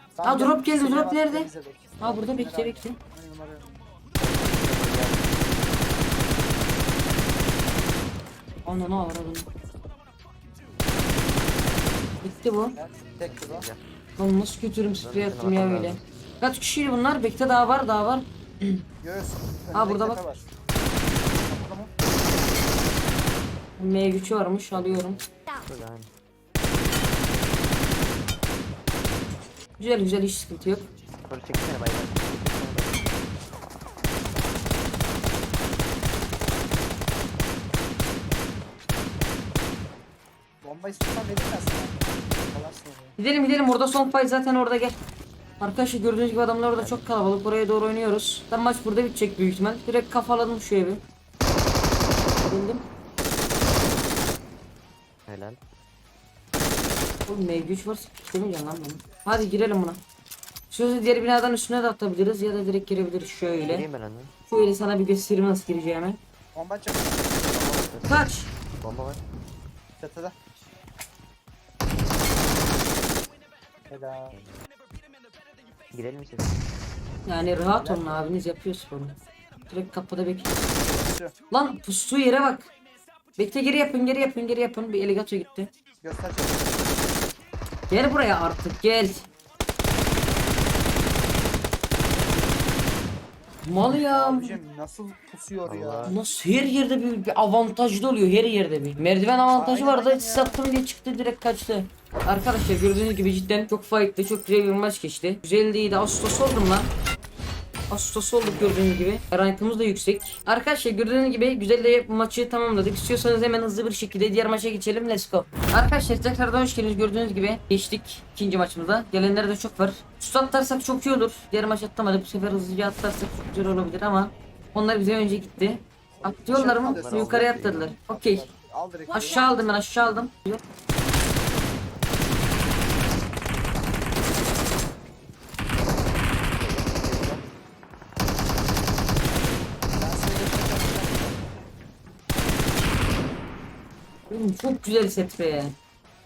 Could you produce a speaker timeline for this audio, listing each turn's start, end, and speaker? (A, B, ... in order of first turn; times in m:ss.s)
0:00.2-0:03.8 A
0:00.2-0:01.5 B
0:02.0-0:03.0 B
0:04.2-0:05.8 C
0:08.6-0:09.5 B
0:12.2-0:12.8 B
0:12.7-0:13.7 A
0:13.3-0:13.8 C
0:14.2-0:18.8 B
0:15.0-0:16.0 C
0:19.0-0:20.5 A
0:19.7-0:20.2 B
0:21.4-0:21.9 A
0:23.8-0:25.2 B
0:24.7-0:26.1 C
0:26.7-0:27.4 C
0:29.8-0:30.9 B
0:31.3-0:33.2 C
0:40.6-0:43.2 A
0:43.2-0:45.0 B
0:45.6-0:51.0 B
0:46.8-0:47.1 C
0:52.4-0:52.8 B
0:55.3-0:55.6 C
0:57.2-1:00.0 B
1:00.7-1:03.8 B
1:03.6-1:04.3 C
1:04.5-1:06.2 B
1:06.5-1:07.6 A
1:07.5-1:08.3 C
1:08.1-1:08.5 B
1:08.8-1:09.2 C
1:10.0-1:10.4 A
1:13.9-1:14.4 A
1:15.9-1:16.6 C
1:17.2-1:19.2 B
1:17.7-1:18.2 A
1:19.7-1:20.6 B
1:20.8-1:21.3 A
1:21.5-1:22.7 B
1:23.4-1:25.7 B
1:26.0-1:26.9 A
1:27.9-1:29.3 B
1:33.6-1:34.6 B
1:33.9-1:36.1 A
1:35.6-1:36.2 C
1:36.0-1:46.9 B
1:39.5-1:40.6 A
1:47.9-2:08.4 B
1:48.4-1:48.8 A
2:06.2-2:09.6 A
2:06.9-2:07.9 C
2:09.1-2:10.6 B
2:16.5-2:17.4 C
2:19.9-2:21.5 A
2:24.3-2:25.7 B